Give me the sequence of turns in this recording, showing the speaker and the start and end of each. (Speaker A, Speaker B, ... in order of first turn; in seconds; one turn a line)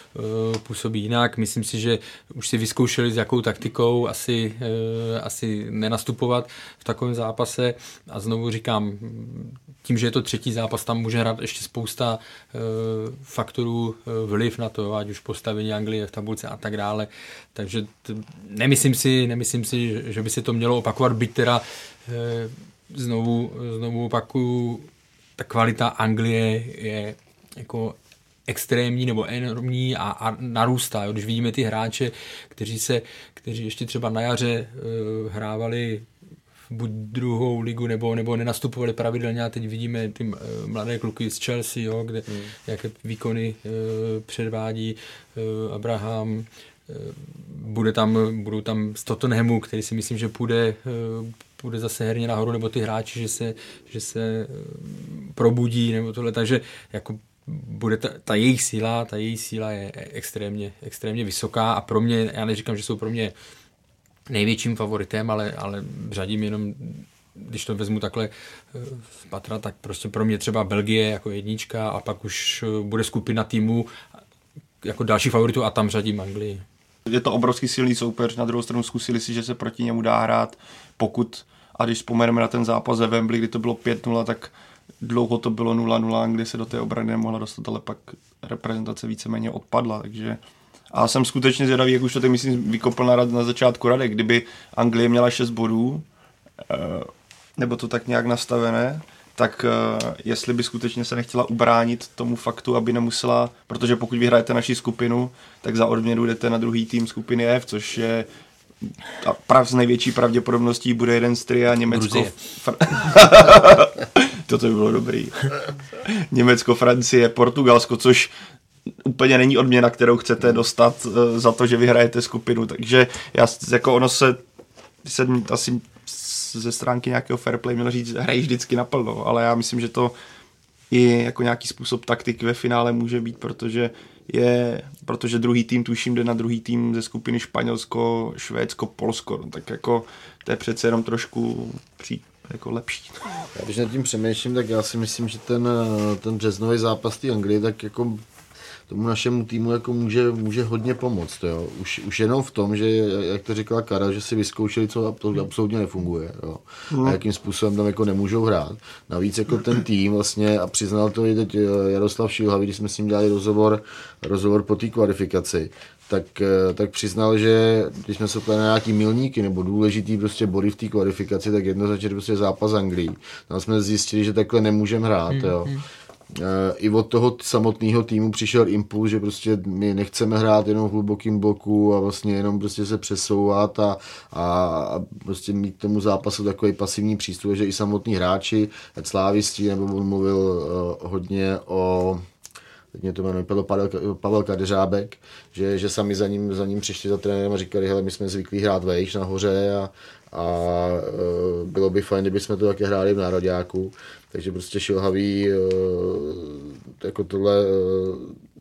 Speaker A: 0.1-36.1
Speaker A: 36.7-63.3
Speaker A: 64.3-73.9
Speaker A: 74.8-76.6
Speaker B: 77.1-90.4
Speaker B: 90.9-96.0
Speaker B: 96.7-108.3
Speaker B: 109.2-118.3
Speaker A: 111.9-112.4
Speaker B: 119.0-124.4
Speaker B: 125.0-130.1
Speaker B: 130.9-143.2
Speaker C: 143.6-148.2
Speaker C: 148.9-175.7
Speaker B: 156.9-157.2
Speaker A: 175.3-175.8
Speaker C: 176.3-192.2
Speaker C: 192.9-208.4